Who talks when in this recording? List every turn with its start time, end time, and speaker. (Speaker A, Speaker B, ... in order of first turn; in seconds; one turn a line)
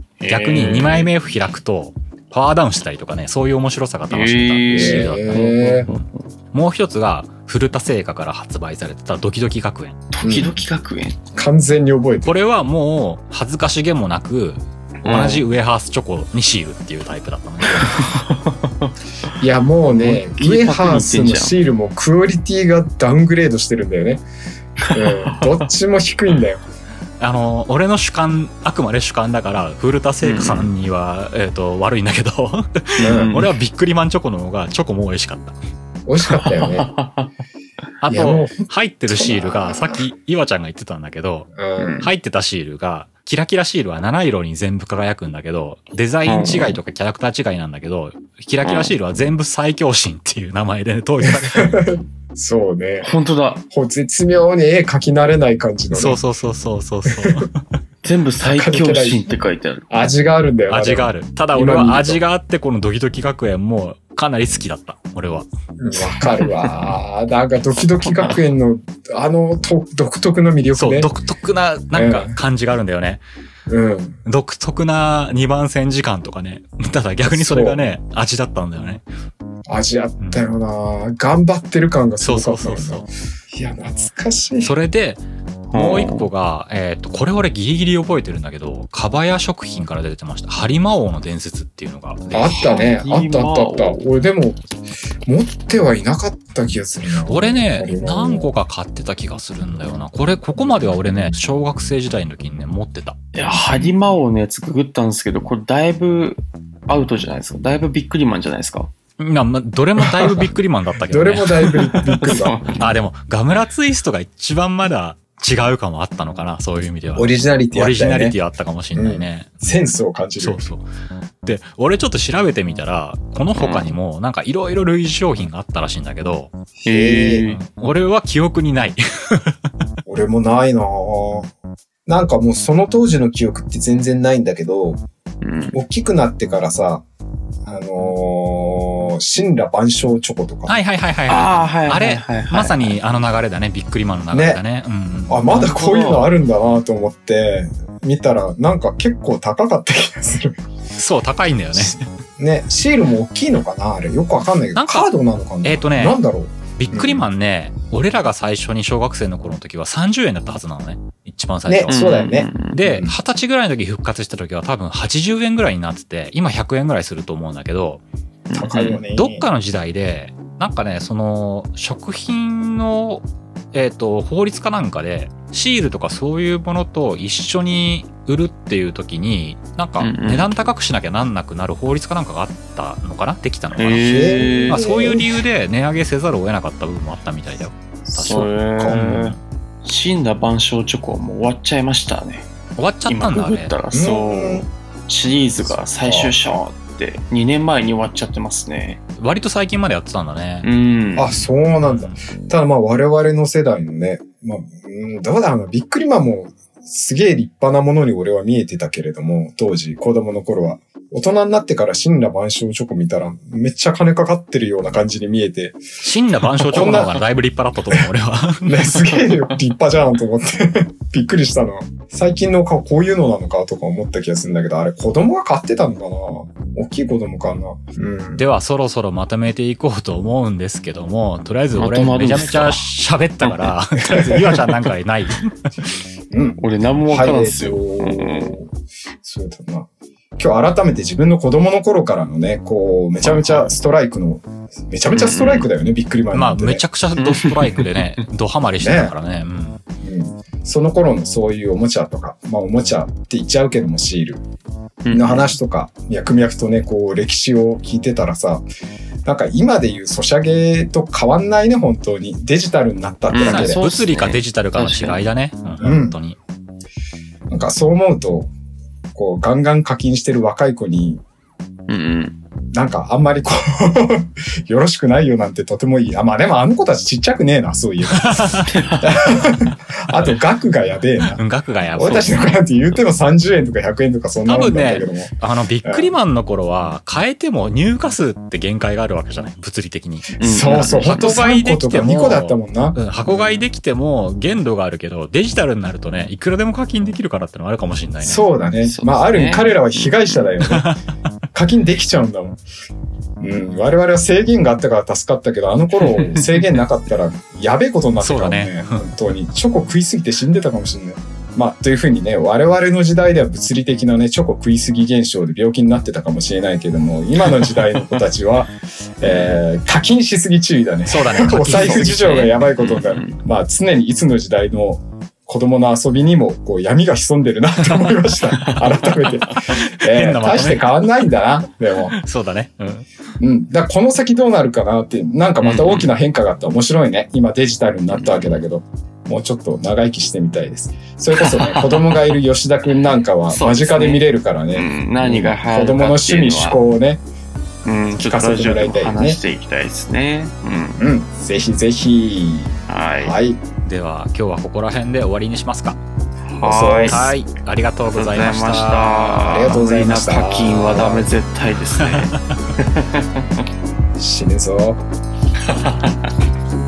Speaker A: 0.2-1.1
Speaker B: 0.3-10.0
Speaker A: 4.1-6.1
Speaker C: 4.7-5.9
Speaker A: 10.1-11.3
Speaker C: 10.2-10.6
Speaker C: 11.3-12.4
Speaker B: 12.2-18.1
Speaker A: 15.0-15.4
Speaker A: 17.8-18.9
Speaker C: 19.4-24.2
Speaker A: 19.9-21.6
Speaker A: 24.8-25.6
Speaker C: 24.9-26.6
Speaker B: 27.2-35.6
Speaker A: 30.2-30.7
Speaker C: 33.0-33.5
Speaker C: 36.1-36.9
Speaker A: 36.3-37.3
Speaker B: 38.0-51.9
Speaker C: 38.1-40.0
Speaker C: 41.5-42.0
Speaker A: 41.8-42.1
Speaker A: 46.3-46.8
Speaker A: 48.6-48.9
Speaker C: 51.2-53.1
Speaker A: 53.0-53.6
Speaker C: 53.7-56.2
Speaker B: 55.9-57.6
Speaker C: 57.1-57.5
Speaker A: 58.0-59.9
Speaker C: 58.4-59.2
Speaker C: 59.9-62.2
Speaker B: 60.7-65.5
Speaker C: 65.8-71.1
Speaker A: 66.4-66.7
Speaker A: 68.1-68.4
Speaker B: 70.7-73.2
Speaker C: 71.9-72.4
Speaker C: 73.7-74.2
Speaker B: 74.3-79.0
Speaker C: 77.2-77.8
Speaker C: 79.7-84.7
Speaker B: 80.2-80.5
Speaker B: 82.2-83.1
Speaker B: 84.6-92.7
Speaker A: 85.7-86.3
Speaker C: 92.3-94.6
Speaker A: 92.6-94.0
Speaker C: 95.2-98.5
Speaker B: 97.3-103.2
Speaker A: 103.3-108.9
Speaker B: 109.2-112.0
Speaker C: 111.1-112.6
Speaker A: 111.9-112.8
Speaker B: 112.7-119.8
Speaker C: 117.2-118.4
Speaker C: 119.0-120.7
Speaker B: 120.4-120.8
Speaker B: 121.4-126.5
Speaker A: 123.6-123.9
Speaker C: 126.9-127.5
Speaker A: 126.9-127.6
Speaker B: 127.5-129.6
Speaker C: 130.1-131.5
Speaker C: 132.1-135.0
Speaker A: 135.4-135.8
Speaker C: 135.7-137.1
Speaker C: 137.7-140.7
Speaker B: 140.7-145.4
Speaker A: 141.3-142.9
Speaker C: 144.3-144.6
Speaker C: 145.3-150.6
Speaker A: 145.5-146.3
Speaker B: 150.9-152.1
Speaker C: 151.7-157.3
Speaker B: 154.7-155.1
Speaker B: 155.6-156.2
Speaker B: 156.7-162.0
Speaker C: 161.7-163.2
Speaker A: 161.9-162.8
Speaker B: 162.7-168.0
Speaker A: 168.5-169.0
Speaker C: 168.5-169.5
Speaker B: 169.1-189.4
Speaker A: 180.0-180.5
Speaker A: 183.8-184.9
Speaker C: 184.0-185.4
Speaker C: 188.0-189.0
Speaker A: 188.3-192.5
Speaker B: 192.8-193.7
Speaker A: 193.1-199.0
Speaker C: 193.9-194.7
Speaker C: 196.0-196.3
Speaker B: 199.2-200.7
Speaker A: 200.6-201.4
Speaker C: 201.2-215.8
Speaker B: 201.8-202.2
Speaker B: 216.0-219.0
Speaker C: 216.7-217.2
Speaker C: 218.7-228.4
Speaker A: 219.1-219.5
Speaker B: 228.4-235.5
Speaker A: 231.8-232.9
Speaker A: 233.4-233.7
Speaker C: 234.2-234.6
Speaker C: 236.3-238.7
Speaker A: 236.6-238.6
Speaker C: 239.2-246.8
Speaker B: 243.2-243.7
Speaker A: 245.1-245.7
Speaker B: 246.3-249.8
Speaker A: 247.2-248.2
Speaker C: 248.8-249.1
Speaker C: 250.0-254.4
Speaker A: 255.0-255.5
Speaker C: 255.1-258.6
Speaker C: 259.2-263.8
Speaker A: 263.3-265.2
Speaker B: 263.4-266.4
Speaker C: 265.8-266.2
Speaker C: 267.5-268.5
Speaker C: 269.1-271.2
Speaker A: 271.9-272.4
Speaker C: 272.7-281.4
Speaker B: 278.1-278.9
Speaker A: 278.7-279.2
Speaker B: 281.3-282.5
Speaker C: 281.9-286.1
Speaker B: 284.4-298.4
Speaker A: 290.4-291.3
Speaker C: 290.4-293.5
Speaker C: 298.2-300.9
Speaker A: 298.8-300.4
Speaker B: 300.6-301.0
Speaker C: 301.5-302.6
Speaker C: 303.4-332.1
Speaker A: 306.0-306.8
Speaker B: 308.2-309.1
Speaker B: 321.1-322.5
Speaker A: 321.6-323.4
Speaker A: 328.7-329.3
Speaker B: 329.7-331.0
Speaker B: 332.1-333.1
Speaker C: 333.4-347.2
Speaker A: 335.6-336.1
Speaker A: 338.1-338.6
Speaker A: 341.3-342.3
Speaker A: 343.5-346.8
Speaker A: 347.9-351.1
Speaker C: 348.1-349.4
Speaker C: 351.0-353.6
Speaker A: 352.9-353.4
Speaker B: 353.9-356.0
Speaker A: 356.5-357.2
Speaker C: 356.6-357.3
Speaker B: 357.1-359.8
Speaker A: 358.1-363.5
Speaker C: 359.4-361.3
Speaker B: 362.0-362.5
Speaker C: 364.2-365.0
Speaker A: 365.7-366.1